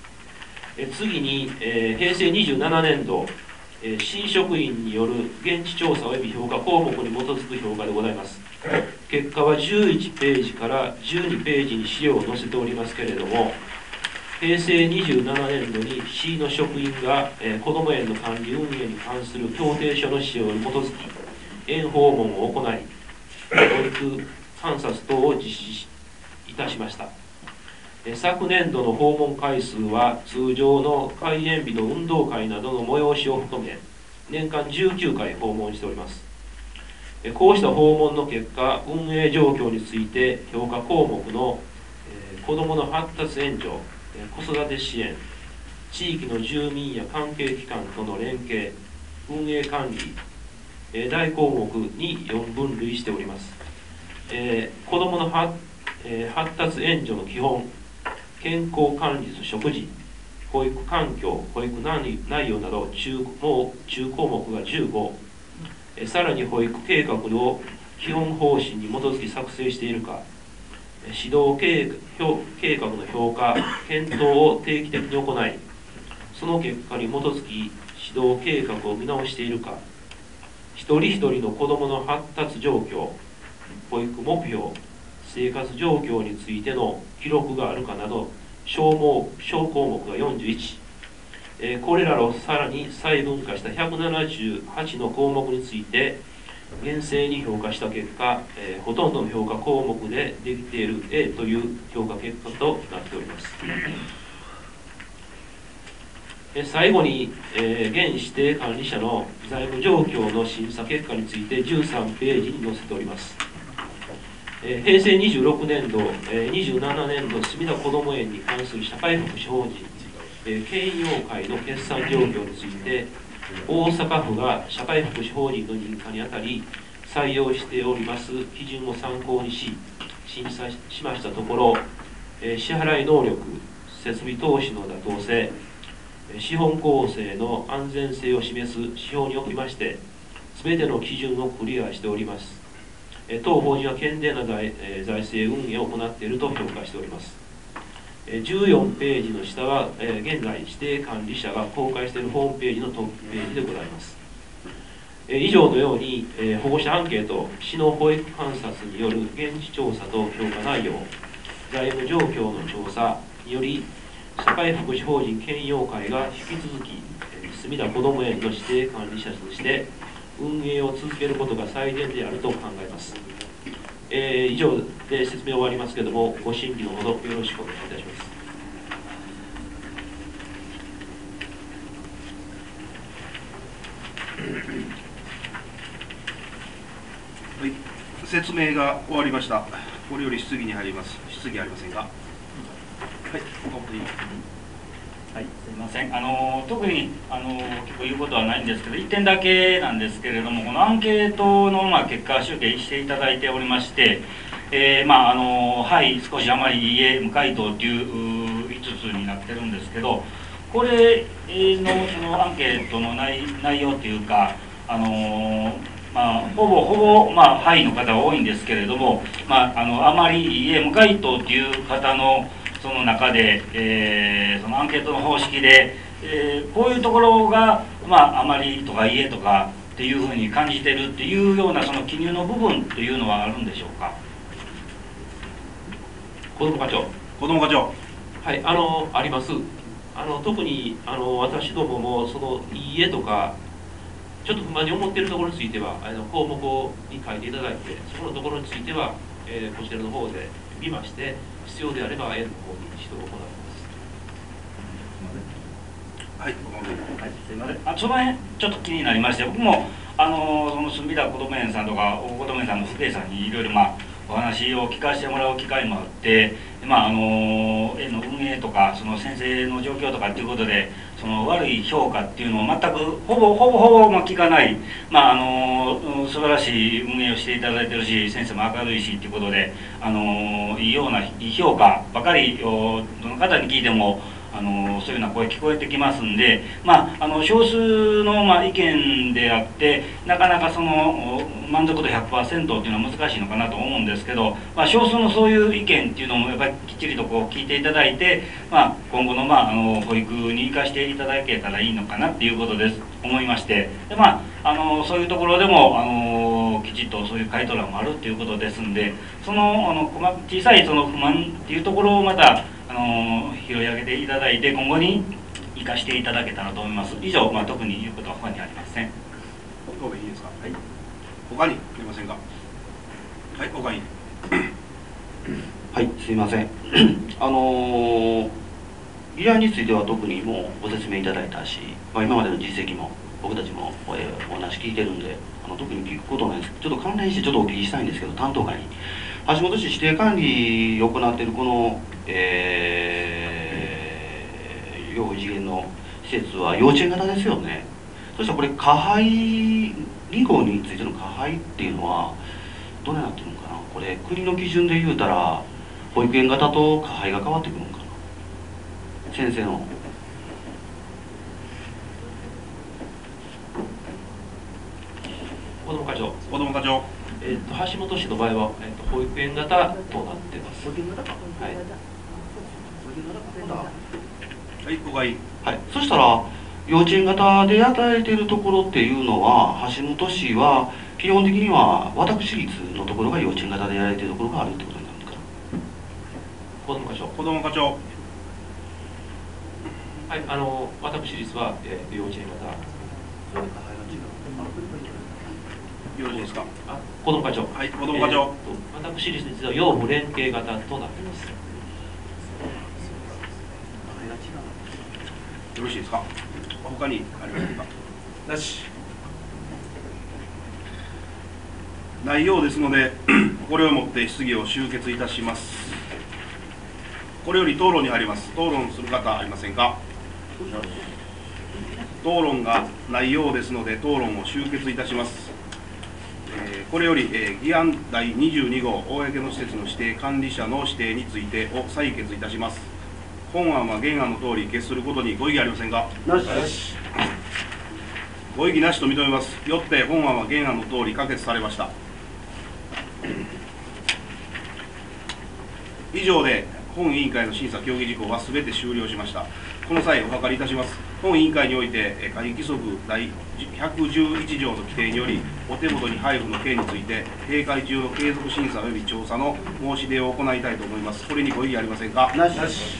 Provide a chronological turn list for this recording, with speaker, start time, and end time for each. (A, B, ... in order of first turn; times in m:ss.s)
0:00.8-0:08.4 A
0:09.1-0:13.5 A
0:14.4-0:21.1 A
0:21.6-0:22.9 A
0:23.6-0:25.9 A
0:26.4-0:27.1 A
0:28.0-0:36.2 A
0:37.2-0:45.2 A
0:45.9-0:48.7 A
0:49.2-0:50.2 A
0:50.9-0:53.6 A
0:54.3-0:57.6 A
0:58.4-0:59.9 A
1:00.5-1:05.1 A
1:06.0-1:10.2 A
1:11.0-1:15.6 A
1:16.3-1:19.8 A
1:20.7-1:23.1 A
1:23.9-1:30.8 A
1:31.6-1:36.2 A
1:36.8-1:43.6 A
1:46.5-1:53.4 A
1:54.6-2:03.1 A
2:03.6-2:11.8 A
2:12.4-2:15.5 A
2:16.3-2:20.0 A
2:20.5-2:22.6 A
2:23.3-2:27.4 A
2:28.2-2:34.2 A
2:35.3-2:41.1 A
2:41.7-2:53.2 A
2:54.1-2:58.3 A
3:07.6-3:12.1 B
3:13.3-3:14.2 B
3:15.3-3:54.1 C
3:56.5-3:57.1 A
3:57.4-3:57.9 B
3:58.4-4:03.5 A
4:04.4-4:13.9 A
4:16.4-4:17.0 B
4:17.2-5:19.1 C
5:19.9-5:20.7 B
5:21.5-5:22.4 B
5:23.5-5:24.7 B
5:25.9-5:28.5 D
5:29.3-5:52.4 D
5:53.0-5:58.1 D
5:59.3-5:59.9 D
6:05.8-6:06.4 A
6:06.5-6:07.1 B
6:07.4-6:10.9 A
6:10.9-6:11.4 D
6:12.8-6:13.9 D
6:14.8-6:15.4 B
6:15.6-6:25.4 D
6:26.8-6:27.3 A
6:27.3-6:28.0 B
6:30.3-6:32.8 A
6:33.5-6:35.5 D
6:36.1-6:36.7 B
6:36.9-6:41.5 A
6:37.7-6:38.5 B
6:44.1-6:44.8 D
6:45.7-6:46.2 B
6:46.8-6:47.9 B
6:52.2-6:56.0 B
6:57.4-7:00.0 B
7:02.2-7:05.5 B
7:06.5-7:12.9 B
7:13.5-7:16.1 B
7:16.3-7:16.6 D
7:18.5-7:21.9 B
7:26.1-7:42.4 B
7:42.3-7:42.9 D